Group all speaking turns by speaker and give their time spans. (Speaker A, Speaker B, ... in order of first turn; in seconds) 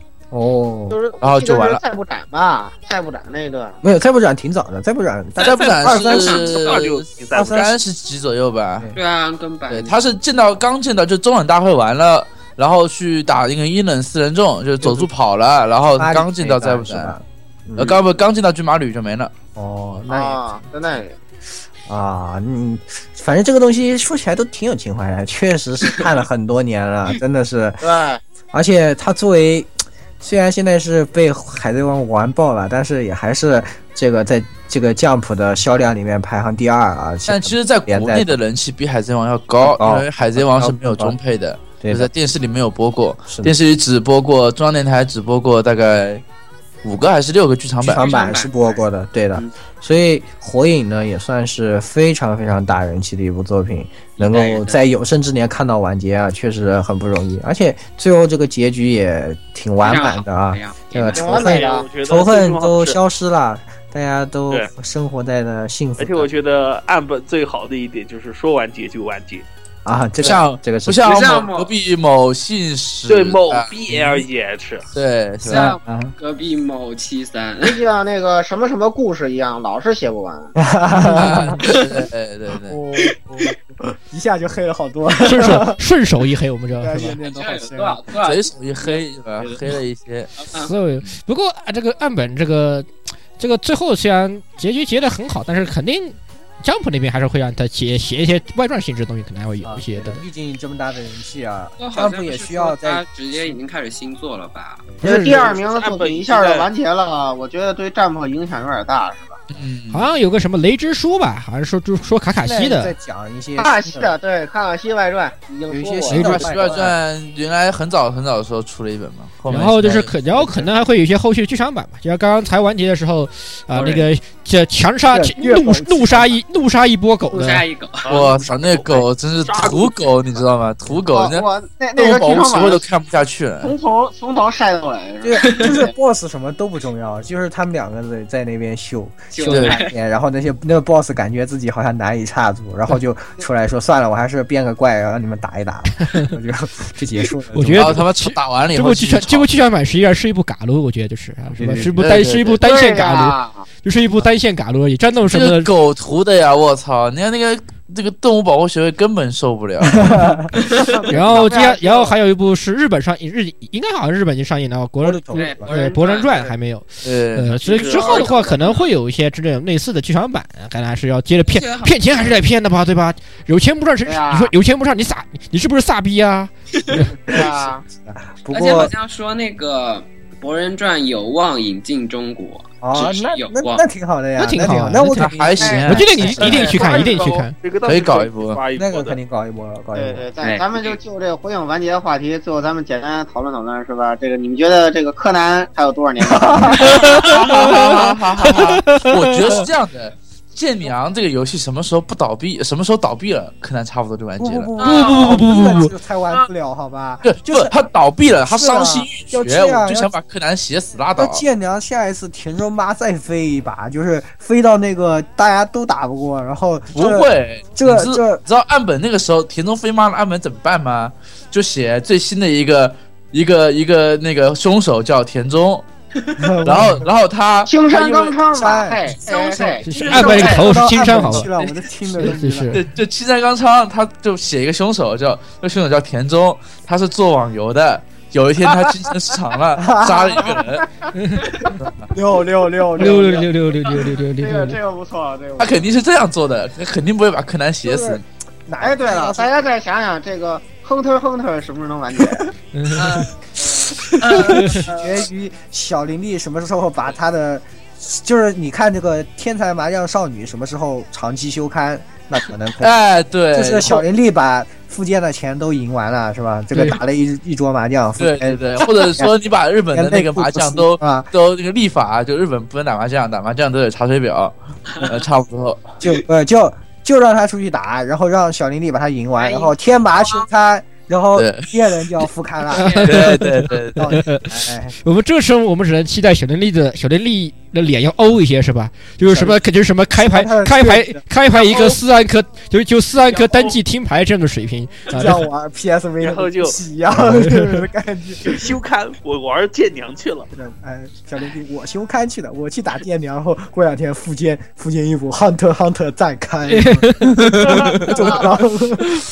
Speaker A: 0.3-1.0, 3.8-6.6, 7.3-7.8, 14.8-15.1, 15.9-18.0, 19.6-20.4, 21.9-27.8, 28.5-38.3, 39.6-41.1, 41.8-42.1, 43.3-43.5, 47.8-66.3, 69.8-71.2, 73.9-74.2, 75.4-76.2, 80.6-81.7, 82.7-85.8, 86.7-88.0, 99.6-103.5, 112.4-114.1, 115.7-116.9, 120.3-120.7, 125.1-126.4, 135.2-148.0, 151.6-152.0, 160.0-160.5, 161.1-161.5, 165.0-165.7, 177.3-178.9, 182.8-186.7, 188.8-190.3, 196.3-197.0, 197.9-198.6, 204.4-207.7, 208.4-210.1, 211.2-218.4, 226.4-227.1, 228.0-232.8, 239.8-240.6, 242.1-243.5, 248.7-249.5, 253.6-262.9, 263.5-269.3, 269.9-271.3, 276.0-284.9, 289.2-289.6, 290.1-291.2, 295.1-298.7, 300.5-309.0
Speaker B: 0.9-3.8, 20.1-21.1, 27.8-28.2, 61.1-61.9, 77.6-80.5, 105.0-109.4, 113.6-116.5, 131.1-132.9, 133.6-135.9, 152.6-153.7, 160.8-162.2, 174.1-174.5, 177.3-177.9, 189.9-198.1, 227.7-230.7, 243.0-245.9, 248.8-252.5
Speaker C: 1.2-1.8, 5.4-8.9, 9.7-17.1, 17.8-19.3, 37.3-46.2, 46.8-48.0, 70.2-73.7, 74.9-75.7, 81.1-82.8, 88.2-90.3, 109.5-110.1, 116.1-120.1, 128.1-133.7, 139.4-139.8, 147.7-149.5, 151.9-152.6, 155.3-160.2, 167.0-167.6, 185.1-186.8, 187.8-188.6, 196.7-204.7, 207.2-211.4, 216.9-225.9, 226.6-228.3, 232.7-240.8, 241.8-242.1, 245.6-248.2, 262.8-264.0, 268.2-276.0, 281.4-281.7, 283.0-284.1, 307.4-308.0
Speaker D: 5.4-7.7, 61.2-63.0, 66.0-69.5, 73.1-74.9, 105.4-106.7, 128.0-130.5, 167.6-168.5, 186.4-189.2, 229.9-230.4, 293.2-293.8, 296.2-296.8, 298.4-300.5
Speaker E: 5.5-7.0, 8.9-10.0, 47.8-49.5, 54.2-54.8, 59.8-61.7, 71.0-71.7, 75.4-77.8, 87.2-89.0, 90.4-90.7, 101.8-104.9, 116.5-116.8, 123.7-124.1, 127.3-128.3, 135.4-135.8, 139.3-140.0, 160.7-160.9, 165.3-166.6, 167.9-168.8, 171.5-172.5, 178.5-183.9, 185.6-187.3, 190.4-191.0, 204.8-205.4, 252.9-255.2, 274.9-275.2, 279.4-280.5, 282.7-283.2, 308.1-308.6
Speaker F: 81.0-81.6, 85.2-87.2, 90.6-92.9, 93.4-100.2, 105.0-105.5, 109.9-112.9, 119.5-127.6, 147.5-155.7, 161.1-177.1, 184.4-185.3, 185.9-187.5, 197.5-198.0, 198.5-199.4, 204.8-205.9, 229.8-231.5, 232.2-232.8, 241.2-241.6, 243.0-244.8, 252.7-253.3, 254.5-254.9, 282.7-295.4, 297.1-297.9, 306.7-307.7